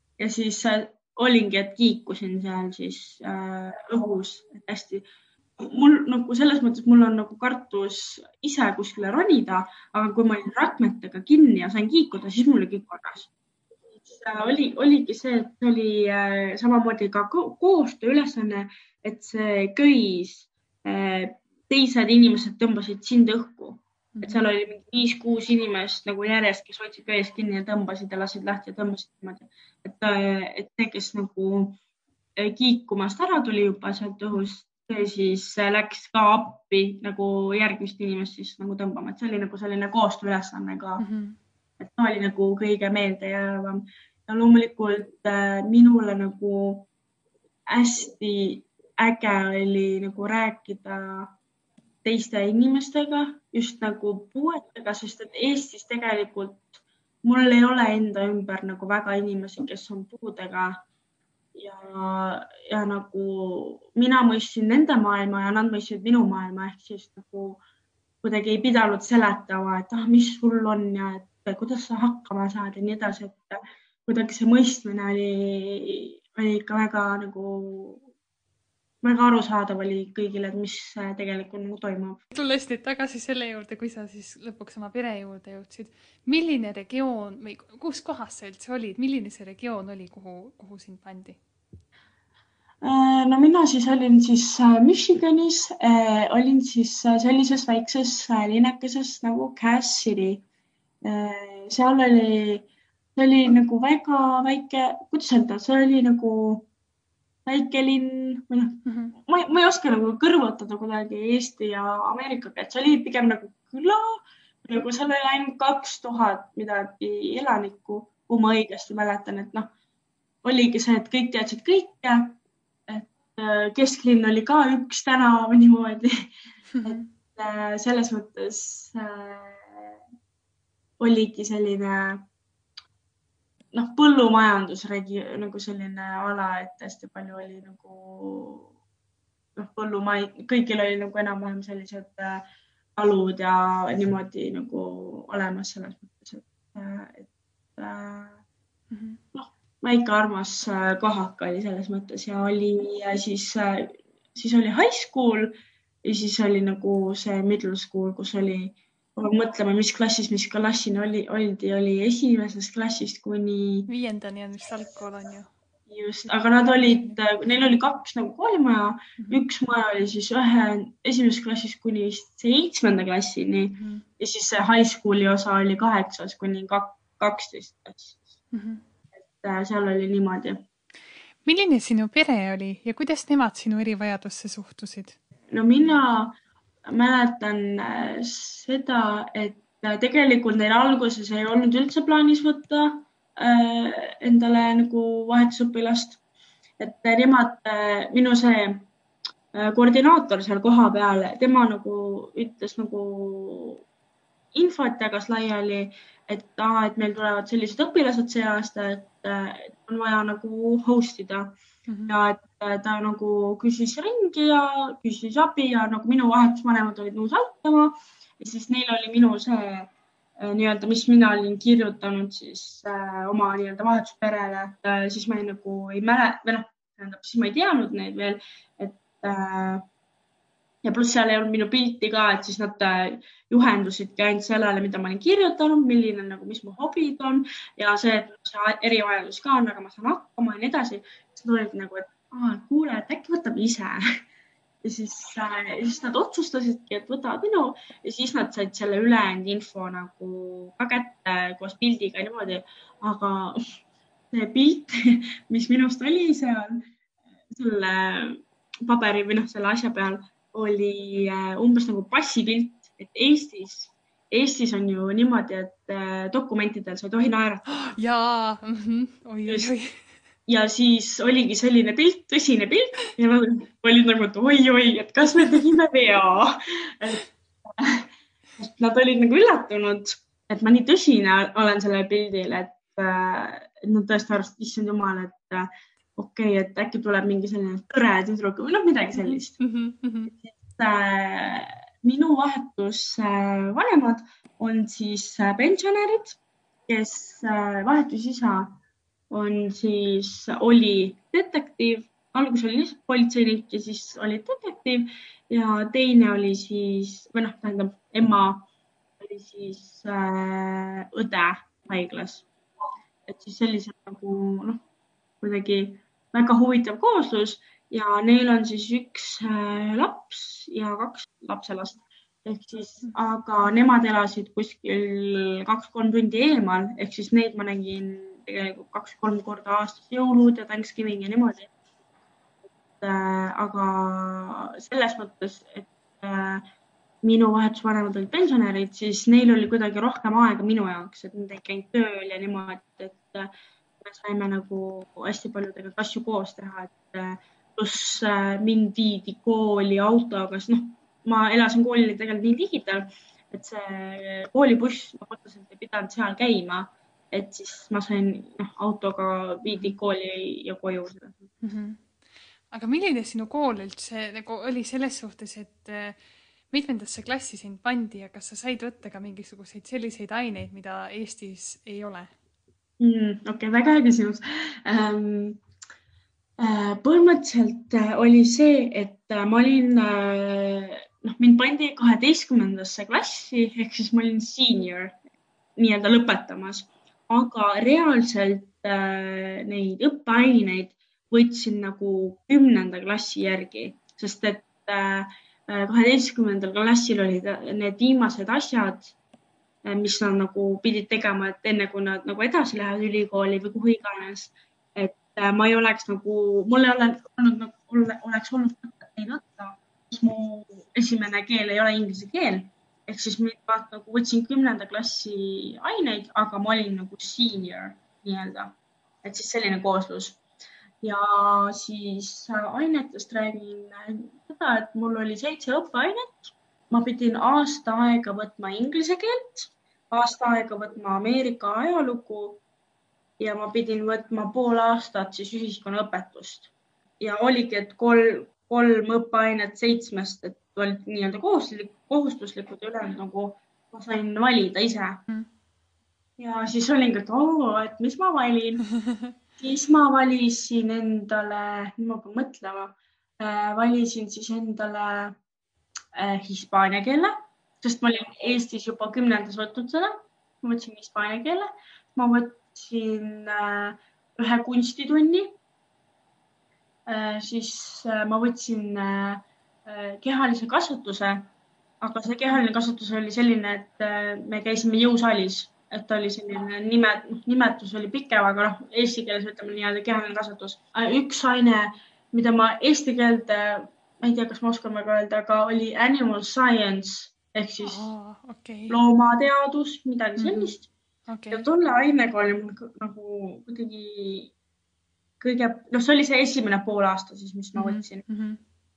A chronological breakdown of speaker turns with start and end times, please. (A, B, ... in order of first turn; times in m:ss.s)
0:00.2-0:05.0 A
0:05.6-0:13.3 A
0:14.0-0:31.8 A
0:24.2-0:24.4 B
0:32.4-0:41.0 A
0:41.0-0:41.4 B
0:41.8-0:46.9 A
0:47.7-0:51.3 A
0:52.0-1:00.8 A
1:01.6-1:07.6 A
1:08.2-1:18.0 A
1:19.0-1:22.2 A
1:22.3-1:31.4 B
1:32.8-1:40.4 A
1:41.0-1:46.7 A
1:47.5-1:59.7 A
1:48.8-1:49.2 B
2:00.4-2:06.1 A
2:06.7-2:07.1 B
2:06.8-2:10.0 A
2:11.0-2:12.2 A
2:13.7-2:18.7 A
2:19.6-2:22.4 A
2:23.0-2:28.4 A
2:28.9-2:29.2 B
2:29.3-2:43.9 A
2:43.9-2:45.5 B
2:45.9-2:58.2 A
2:46.2-2:47.2 B
2:49.2-2:49.4 B
2:53.7-2:54.0 B
2:58.5-2:58.8 B
2:59.4-3:00.6 A
3:01.5-3:05.2 B
3:05.5-3:06.4 A
3:06.9-3:16.2 A
3:16.8-3:18.9 A
3:19.5-3:23.8 A
3:24.5-3:31.5 A
3:31.9-3:32.2 B
3:32.1-3:49.9 A
3:50.8-4:04.0 A
4:04.8-4:13.6 A
4:14.3-4:16.8 A
4:17.5-4:28.0 A
4:27.7-4:30.0 B
4:29.5-4:29.7 A
4:30.5-4:49.6 A
4:49.2-4:50.3 B
4:50.4-4:58.8 A
4:59.3-5:08.7 A
5:09.2-5:12.5 A
5:13.3-5:14.8 A
5:15.4-5:31.7 A
5:33.0-5:36.6 A
5:37.2-6:01.5 A
5:59.7-6:00.0 B
6:01.6-6:02.1 B
6:02.7-6:06.2 B
6:06.7-6:12.3 B
6:13.0-6:15.6 A
6:16.6-6:25.2 A
6:25.8-6:39.1 A
6:39.8-7:00.4 A
7:01.0-7:12.6 A
7:13.4-7:25.2 A
7:26.4-7:28.8 A
7:29.0-7:29.3 B
7:29.6-7:35.4 A
7:36.2-7:45.6 A
7:47.1-7:51.5 A
7:52.0-8:08.1 A
8:07.8-8:09.0 B
8:08.9-8:10.9 A
8:10.4-8:10.7 B
8:11.3-8:11.7 B
8:11.5-8:14.5 A
8:15.4-8:18.2 A
8:17.8-8:18.6 B